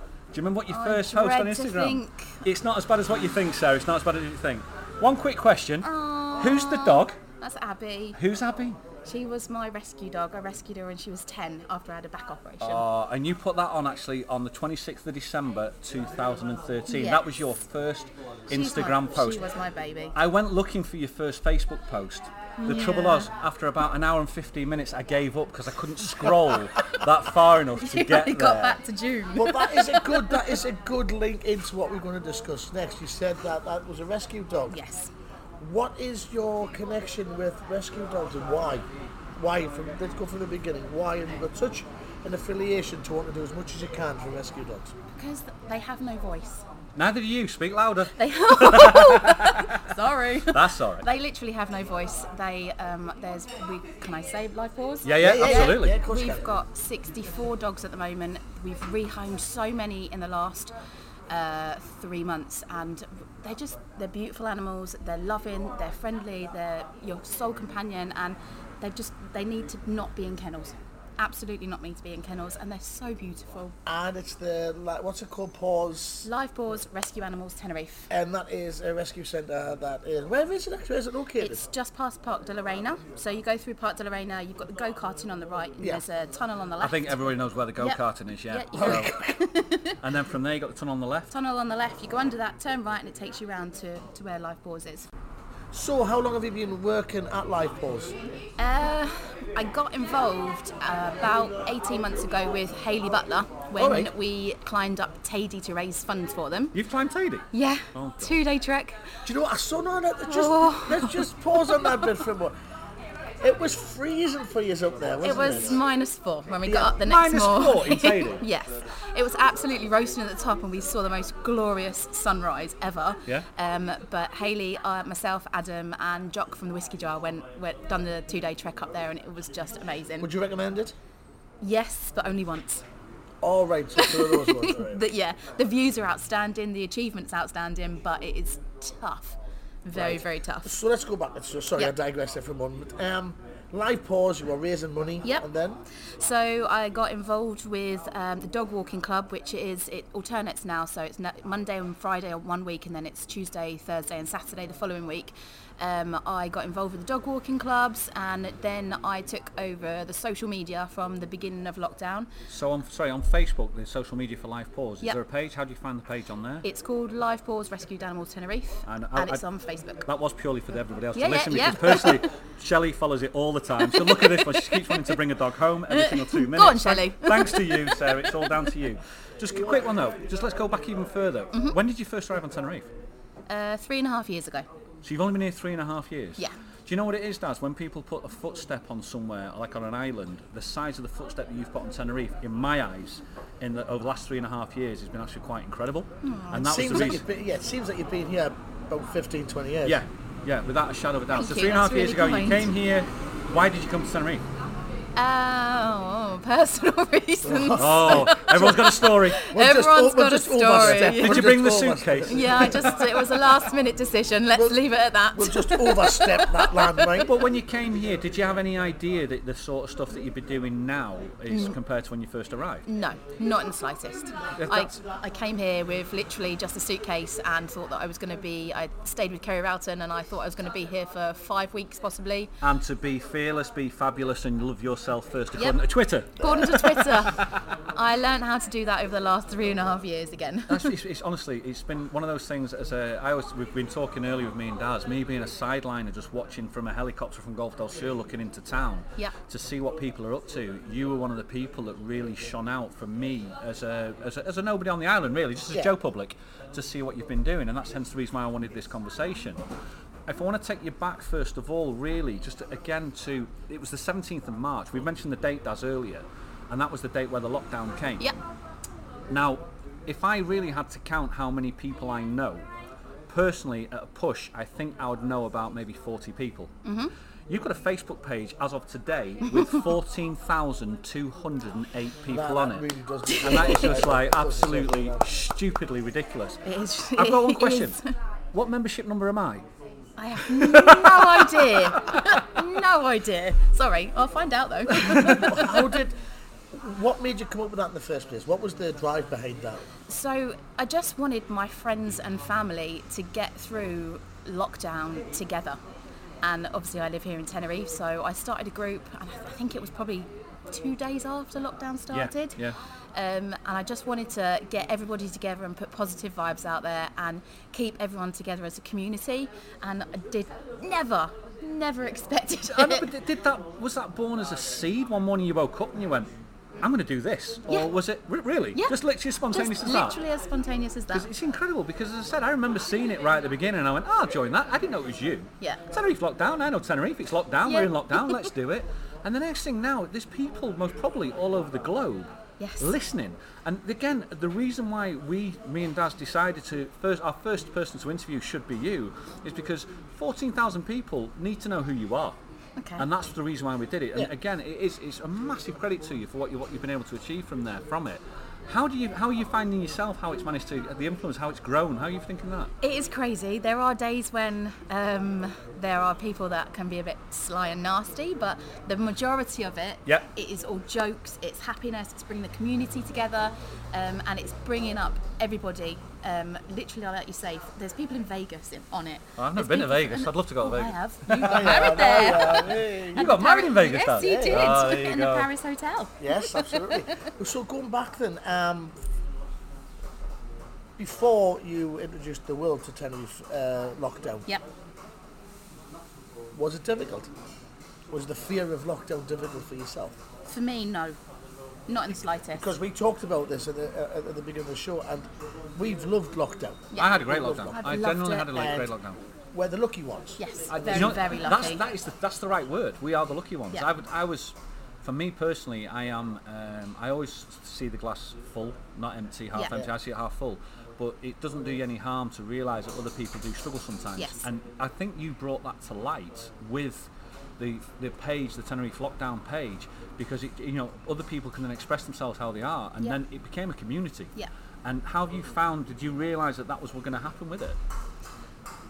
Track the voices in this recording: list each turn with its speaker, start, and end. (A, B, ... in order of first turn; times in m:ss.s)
0:00.3-0:07.2 A
0:00.7-0:02.4 B
0:05.8-0:08.2 B
0:08.2-0:08.8 A
0:09.0-0:12.8 B
0:12.6-0:19.4 A
0:16.9-0:17.2 B
0:18.5-0:20.1 B
0:20.1-0:28.8 A
0:22.6-0:23.3 B
0:27.8-0:30.6 B
0:29.3-0:34.8 C
0:34.7-0:35.1 B
0:35.6-0:44.9 C
0:45.1-0:46.6 B
0:47.0-0:51.1 A
0:48.2-1:00.7 B
0:55.0-0:56.0 A
0:55.2-0:56.5 C
1:01.3-1:13.7 B
1:13.8-1:16.3 C
1:16.2-1:18.1 B
1:18.1-1:21.6 C
1:21.4-1:27.2 B
1:26.8-1:29.1 A
1:27.8-1:30.0 B
1:28.8-1:29.4 C
1:30.0-1:31.3 A
1:31.3-1:35.1 B
1:35.7-1:38.1 C
1:38.6-1:46.8 B
1:43.8-1:44.1 C
1:46.7-1:48.4 A
1:47.5-1:49.0 B
1:49.2-1:52.5 C
1:50.3-1:52.2 B
1:53.4-1:55.8 C
1:55.2-2:10.3 B
1:57.0-1:58.4 A
2:10.2-2:10.9 C
2:11.6-2:12.8 B
2:13.4-2:15.1 C
2:14.0-2:20.8 B
2:19.9-2:25.8 C
2:26.2-2:42.3 B
2:42.5-2:46.6 A
2:46.6-2:50.0 B
2:48.8-2:49.4 A
2:50.0-3:02.9 A
2:51.1-2:52.2 B
2:53.8-2:55.2 B
2:55.9-2:58.7 B
3:03.5-3:04.6 B
3:05.0-3:17.2 A
3:16.2-3:16.9 B
3:16.6-3:20.0 C
3:19.8-3:24.4 A
3:21.3-3:22.7 B
3:25.2-3:31.5 B
3:27.4-3:33.0 C
3:27.8-3:29.4 A
3:30.8-3:33.0 A
3:32.3-3:37.2 B
3:34.5-3:34.8 C
3:35.3-3:37.3 C
3:37.2-3:42.8 A
3:41.5-3:41.7 B
3:42.8-3:52.5 B
3:44.6-3:45.0 A
3:52.6-3:57.4 A
3:56.4-4:00.9 B
4:00.7-4:19.6 A
4:20.3-4:28.3 A
4:29.3-4:32.6 A
4:33.3-4:36.7 A
4:36.8-4:37.1 B
4:37.5-4:42.8 A
4:39.5-4:39.8 B
4:42.3-4:45.3 C
4:43.3-4:44.0 B
4:43.4-4:46.6 A
4:46.6-4:48.0 B
4:47.2-4:48.0 A
4:48.5-4:49.6 A
4:50.2-4:55.9 B
4:50.5-4:52.3 A
4:55.0-4:55.4 A
4:55.2-4:56.2 C
4:56.7-4:59.8 C
5:00.1-5:05.8 B
5:06.4-5:12.6 B
5:12.1-5:12.8 A
5:13.1-5:23.1 B
5:22.7-5:26.3 A
5:26.8-5:30.2 A
5:27.7-5:27.9 B
5:29.5-5:31.3 B
5:31.1-5:42.3 A
5:37.6-5:38.5 B
5:42.6-5:42.9 B
5:42.8-5:52.4 A
5:52.8-5:53.0 B
5:53.0-6:02.7 A
6:02.8-6:27.3 B
6:19.4-6:25.5 A
6:21.4-6:23.3 C
6:24.2-6:24.8 C
6:26.2-6:28.9 C
6:31.0-6:34.5 C
6:36.5-6:37.3 C
6:38.1-6:40.2 C
6:40.4-6:41.2 B
6:41.9-6:42.7 B
6:42.5-6:47.8 C
6:46.9-6:48.5 B
6:47.0-6:49.2 A
6:48.5-6:48.9 C
6:49.5-6:50.4 C
6:50.4-6:51.8 B
6:50.7-7:14.3 A
6:59.5-6:59.9 B
7:04.2-7:04.4 B
7:14.8-7:17.8 A